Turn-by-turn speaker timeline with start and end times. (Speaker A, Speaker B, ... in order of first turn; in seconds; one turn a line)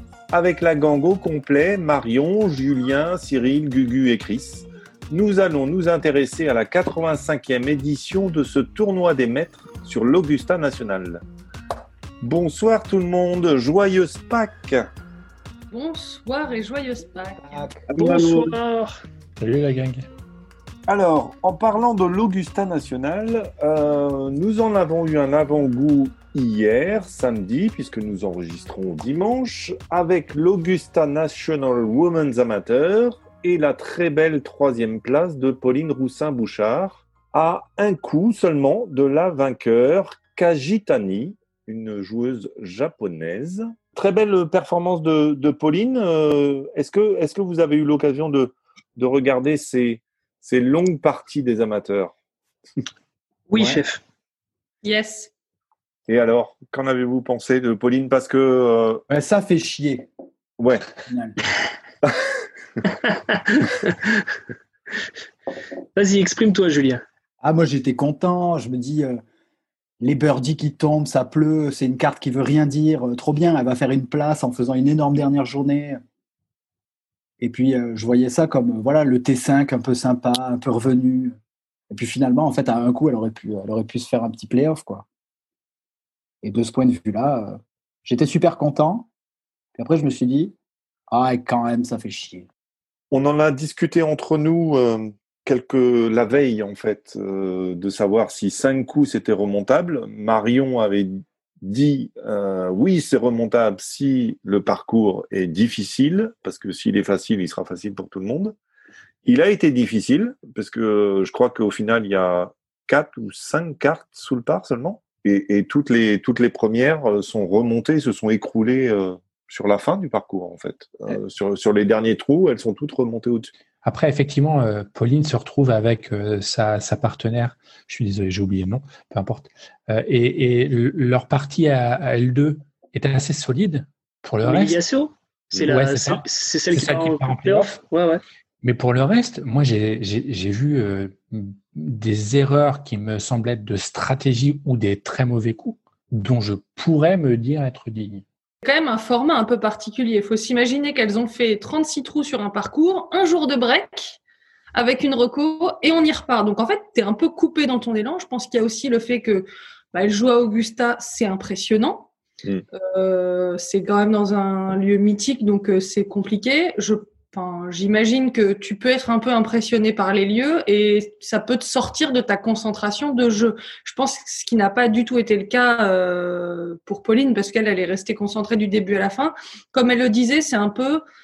Speaker A: 0.3-11.2
Speaker A: 12.2-14.9
Speaker B: 15.7-17.7
Speaker C: 17.4-17.9
Speaker A: 17.9-18.5
Speaker D: 17.9-19.0
Speaker E: 19.4-20.1
Speaker A: 20.9-52.1
Speaker D: 53.5-54.0
Speaker B: 54.8-55.3
Speaker A: 56.1-59.0
Speaker C: 59.1-60.1
Speaker A: 60.6-60.9
Speaker C: 61.0-61.4
Speaker D: 63.1-64.2
Speaker D: 65.9-67.0
Speaker C: 67.4-69.2
Speaker C: 70.0-76.0
Speaker C: 77.4-81.3
Speaker C: 81.9-85.0
Speaker C: 86.4-89.1
Speaker C: 89.7-90.5
Speaker C: 91.1-92.5
Speaker A: 93.1-108.5
Speaker A: 109.2-123.5
Speaker E: 123.8-134.8
Speaker D: 134.4-138.2
Speaker E: 135.6-137.8
Speaker E: 138.6-148.2
Speaker B: 148.6-154.2
Speaker B: 154.7-162.1
Speaker B: 162.8-181.0